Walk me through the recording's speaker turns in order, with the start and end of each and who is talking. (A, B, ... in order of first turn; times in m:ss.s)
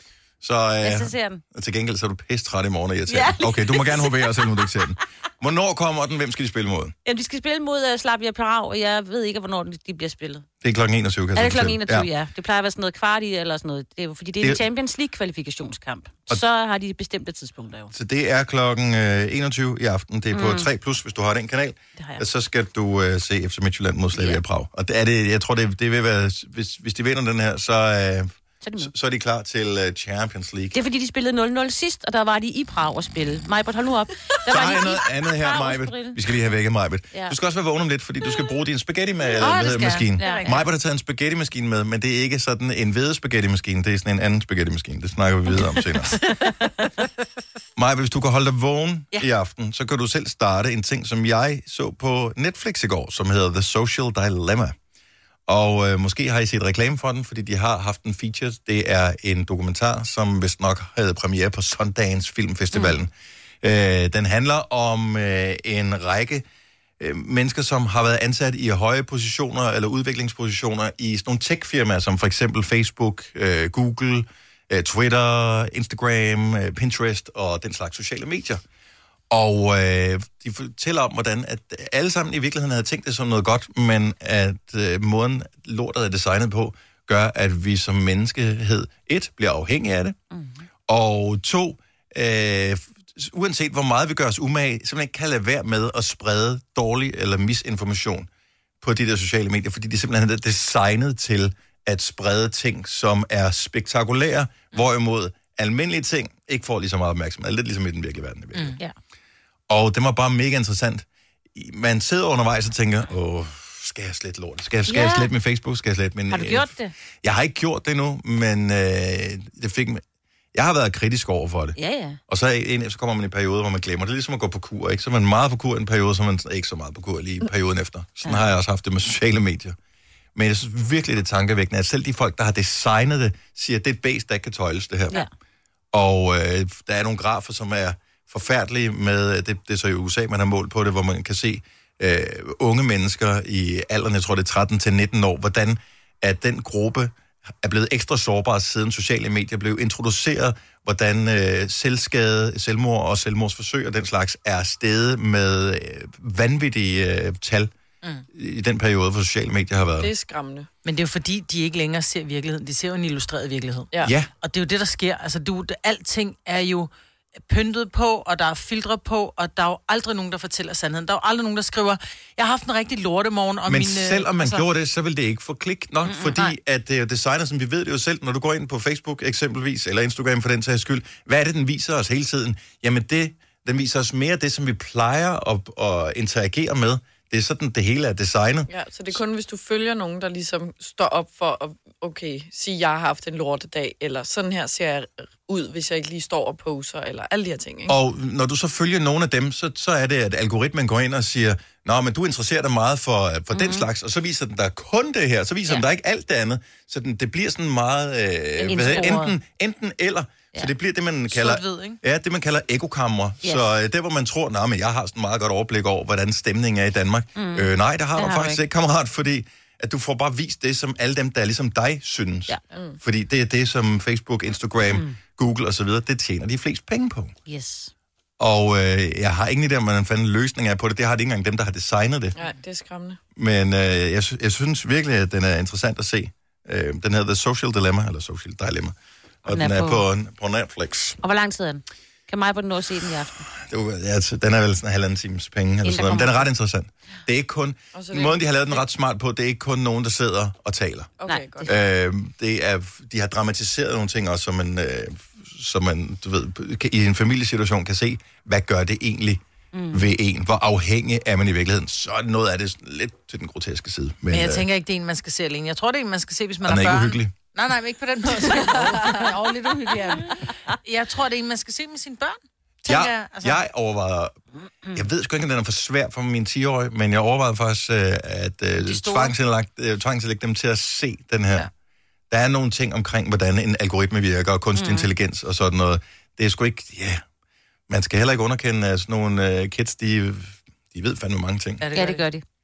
0:00.4-0:06.9 A
0:00.8-0:01.4 B
0:03.1-0:04.1 B
0:07.0-0:10.4 B
0:10.6-0:12.1 A
0:11.3-0:17.9 B
0:17.9-0:30.8 A
0:20.3-0:20.7 B
0:22.0-0:22.2 B
0:24.1-0:24.4 B
0:28.6-0:28.9 B
0:30.7-0:36.2 B
0:34.5-0:46.2 A
0:39.4-0:40.6 C
0:39.4-0:40.5 B
0:47.8-0:54.7 A
0:55.5-1:03.1 A
1:02.7-1:03.0 B
1:03.6-1:06.4 A
1:07.0-1:18.6 A
1:19.3-1:30.2 A
1:30.3-1:30.7 B
1:30.9-1:38.3 A
1:38.8-1:48.8 A
1:49.7-1:56.7 A
1:54.9-1:55.3 B
1:56.3-1:56.9 B
1:57.2-2:00.0 A
2:00.5-2:09.8 A
2:01.8-2:02.2 B
2:10.3-2:15.2 A
2:15.9-2:37.7 A
2:38.3-2:40.1 A
2:40.0-2:40.7 D
2:40.8-2:46.9 C
2:44.0-2:44.3 A
2:47.4-2:54.6 C
2:53.6-3:09.2 A
2:56.0-2:56.5 B
3:08.7-3:18.0 D
3:17.9-3:47.3 A
3:23.5-3:23.8 B
3:28.6-3:29.4 B
3:31.3-3:32.0 C
3:33.4-3:33.7 B
3:37.4-3:38.6 B
3:42.7-3:43.0 D
3:44.9-3:45.2 B
3:47.5-3:47.9 B
3:48.4-3:52.3 A
3:52.4-3:53.2 D
3:53.4-4:01.2 A
3:59.5-4:00.0 B
4:01.2-4:03.4 B
4:03.5-4:11.1 A
4:05.8-4:06.5 B
4:07.9-4:08.8 D
4:11.2-4:11.7 D
4:11.2-4:11.7 B
4:11.6-4:24.6 A
4:19.7-4:20.1 B
4:24.3-4:33.6 C
4:26.6-4:27.3 A
4:28.4-4:29.3 D
4:32.8-4:34.3 A
4:34.9-4:41.7 A
4:38.8-4:39.3 C
4:42.3-4:47.2 A
4:44.7-4:45.1 B
4:47.9-4:51.8 A
4:51.8-4:52.2 C
4:51.9-4:52.4 B